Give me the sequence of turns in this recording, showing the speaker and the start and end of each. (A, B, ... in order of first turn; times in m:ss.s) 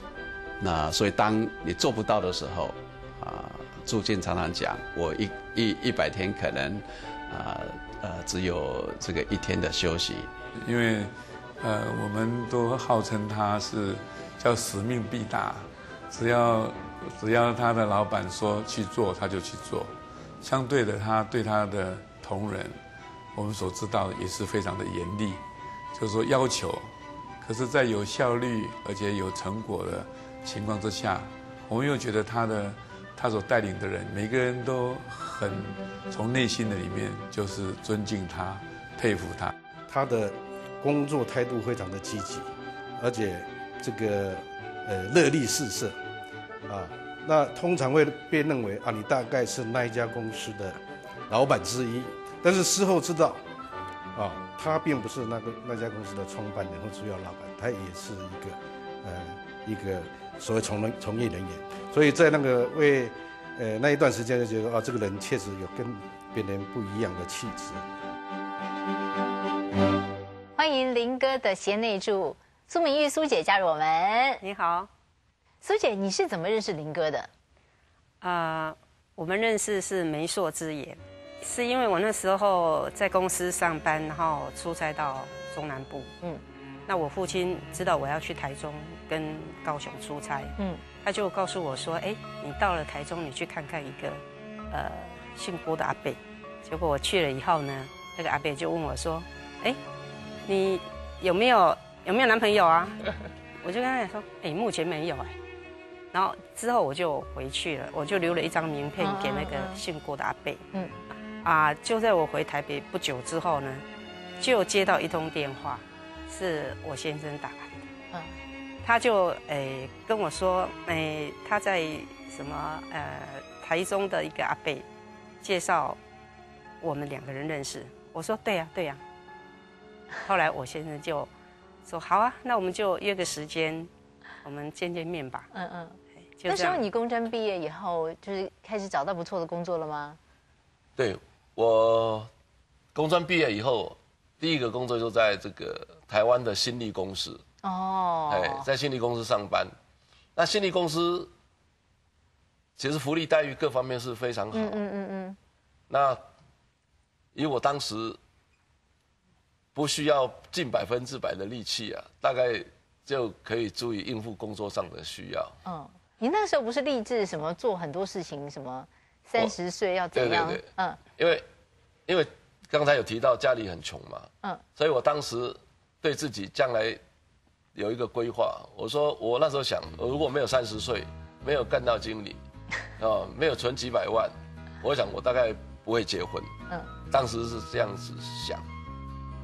0:00.6-0:10.3 A
0:10.6-0:22.8 B
0:23.3-0:25.4 B
0:25.9-0:39.5 B
0:39.9-0:46.0 C
0:46.7-0:53.4 C
0:54.1-1:07.8 C
1:10.6-1:14.4 D
1:14.4-1:14.9 E
1:15.6-1:17.3 D
1:18.2-1:26.1 E
1:26.9-1:34.2 E
1:30.6-1:30.8 D
1:34.7-1:39.8 E
1:40.4-1:43.0 E
1:43.6-1:45.4 E
1:46.1-1:50.6 E
1:49.0-1:49.8 D
1:51.4-1:53.8 E
1:54.4-1:57.8 E
1:58.8-2:04.8 E
2:05.4-2:06.0 E
2:06.8-2:09.0 E
2:10.2-2:11.3 E
2:11.8-2:13.9 E
2:14.4-2:15.5 E
2:15.5-2:20.2 D
2:16.4-2:16.8 E
2:21.0-2:22.3 F
2:22.9-2:27.4 F
2:27.6-2:28.6 D
2:28.3-2:29.7 F
2:30.4-2:31.3 F
2:32.8-2:34.8 F
2:34.5-2:35.4 D
2:35.9-2:36.2 F
2:37.3-2:38.2 F
2:39.7-2:45.6 F
2:45.6-2:51.0 D
2:50.1-2:50.6 F
2:51.2-2:51.4 F
2:52.1-2:57.0 F
2:57.7-3:02.4 F
3:03.0-3:06.5 F
3:07.1-3:08.6 F